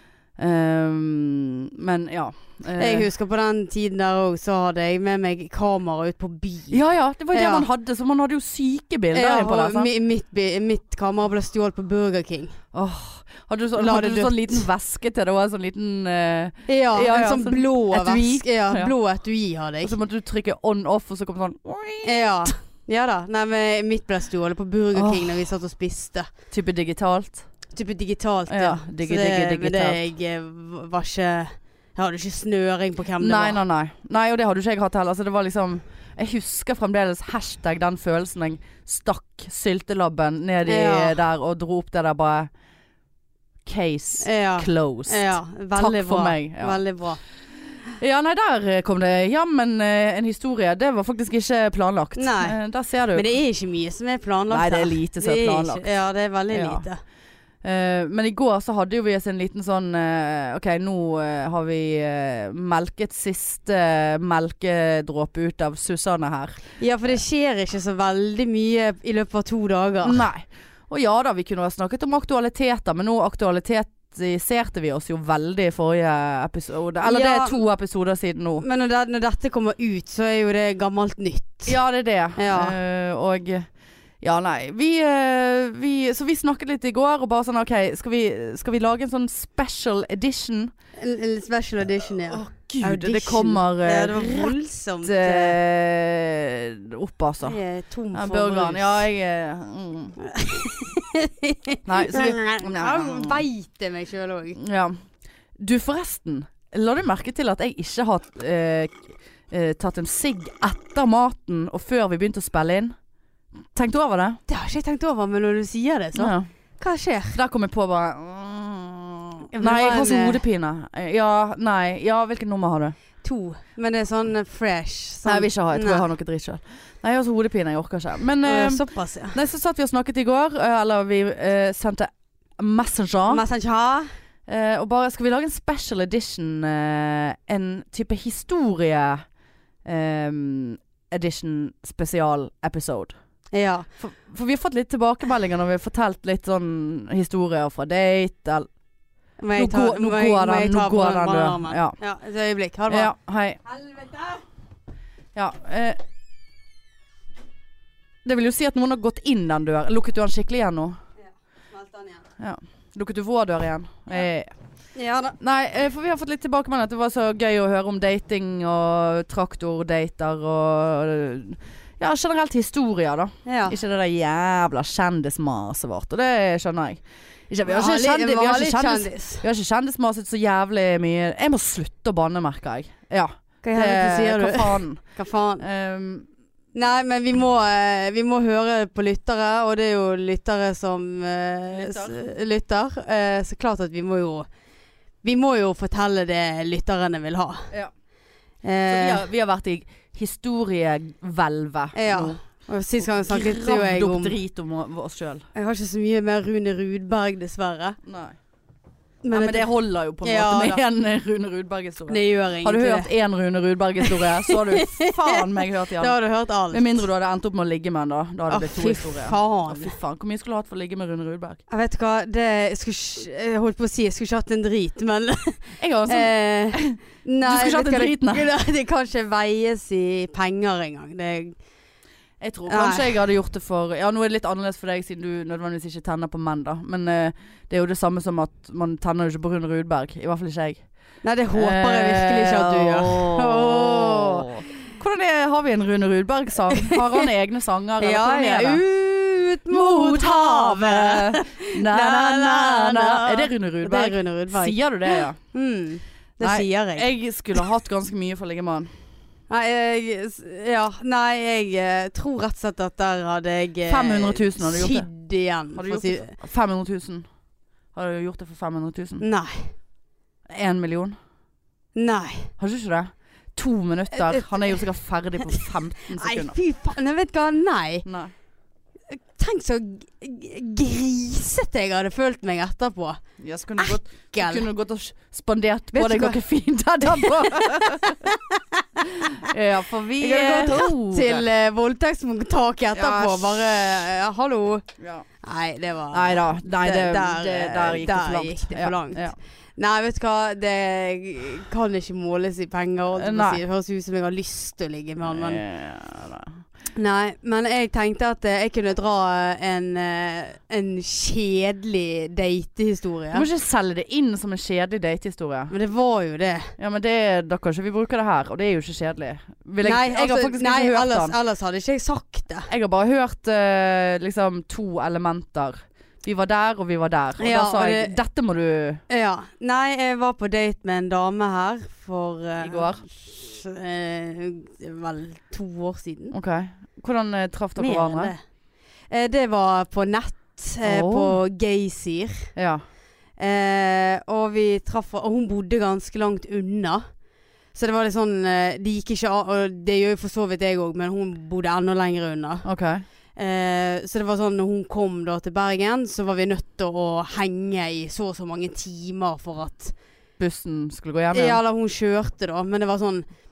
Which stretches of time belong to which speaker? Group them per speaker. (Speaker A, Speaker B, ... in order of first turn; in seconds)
Speaker A: 0.4-3.1, 6.7-9.9, 12.7-18.9, 19.8-22.5, 24.9-25.5, 26.5-27.4, 28.5-30.1, 33.2-42.5, 43.6-46.8, 48.0-53.2, 54.5-55.9, 56.5-56.8, 57.6-66.6, 70.0-78.6, 81.7-83.7, 84.2-90.7, 92.2-97.6, 98.1-100.2, 101.8-103.4, 104.6-105.0, 105.6-112.9, 113.7-114.4, 116.2-116.5, 117.3-123.0, 125.2-133.4, 134.5-139.2, 139.8-143.1, 144.0-148.7, 149.6-151.9, 152.9-153.6, 155.3-156.0, 158.2-161.0, 162.4-164.5, 165.4-185.0, 185.6-186.3, 191.7-192.2, 198.9-202.4, 203.0-205.5, 208.0-208.3, 209.3-216.1, 216.7-221.6, 225.8-228.5, 232.4-240.8, 241.6-248.8, 249.7-255.4, 256.4-258.9, 263.9-265.1, 265.7-267.2, 267.9-269.2, 270.5-271.1, 272.6-276.6, 278.0-278.3, 283.4-288.3, 289.1-291.4, 292.9-294.0, 295.0-295.2, 296.1-299.4, 303.1-303.6, 305.2-306.6, 313.3-315.7, 316.8-321.3, 322.7-329.0, 332.6-333.0, 336.3-338.3, 340.8-341.4, 342.6-342.8, 352.6-353.0, 360.4-361.6
Speaker B: 2.8-6.8, 7.3-7.7, 9.1-12.6, 13.8-14.7, 16.7-19.9, 22.0-26.3, 27.7-33.6, 40.6-41.2, 44.2-47.2, 52.2-52.5, 53.1-57.0, 66.8-70.2, 77.0-77.6, 78.6-81.8, 82.4-82.8, 91.0-95.6, 97.4-99.0, 100.2-104.6, 114.5-117.4, 119.5-120.4, 123.2-126.0, 128.4-129.4, 133.3-134.1, 143.5-143.9, 149.4-153.1, 153.6-154.4, 161.7-162.2, 164.9-165.3, 173.4-173.8, 177.7-179.4, 183.6-185.6, 186.7-194.5, 195.2-197.7, 198.6-199.2, 201.9-204.4, 205.5-208.0, 209.2-209.7, 210.2-210.8, 212.1-213.1, 214.0-215.4, 216.0-217.1, 218.5-219.9, 221.7-231.6, 232.7-233.2, 241.2-244.5, 246.7-247.2, 248.0-257.1, 259.5-266.3, 269.2-269.7, 271.9-272.5, 274.1-274.8, 275.5-278.1, 279.1-283.2, 283.8-284.7, 285.9-286.4, 287.0-289.4, 290.2-294.9, 295.4-305.6, 306.9-313.5, 315.7-316.7, 319.8-322.7, 327.4-328.1, 329.1-336.3, 337.8-338.4, 339.1-342.5, 343.4-347.1, 347.7-352.7, 353.4-359.9, 361.3-363.3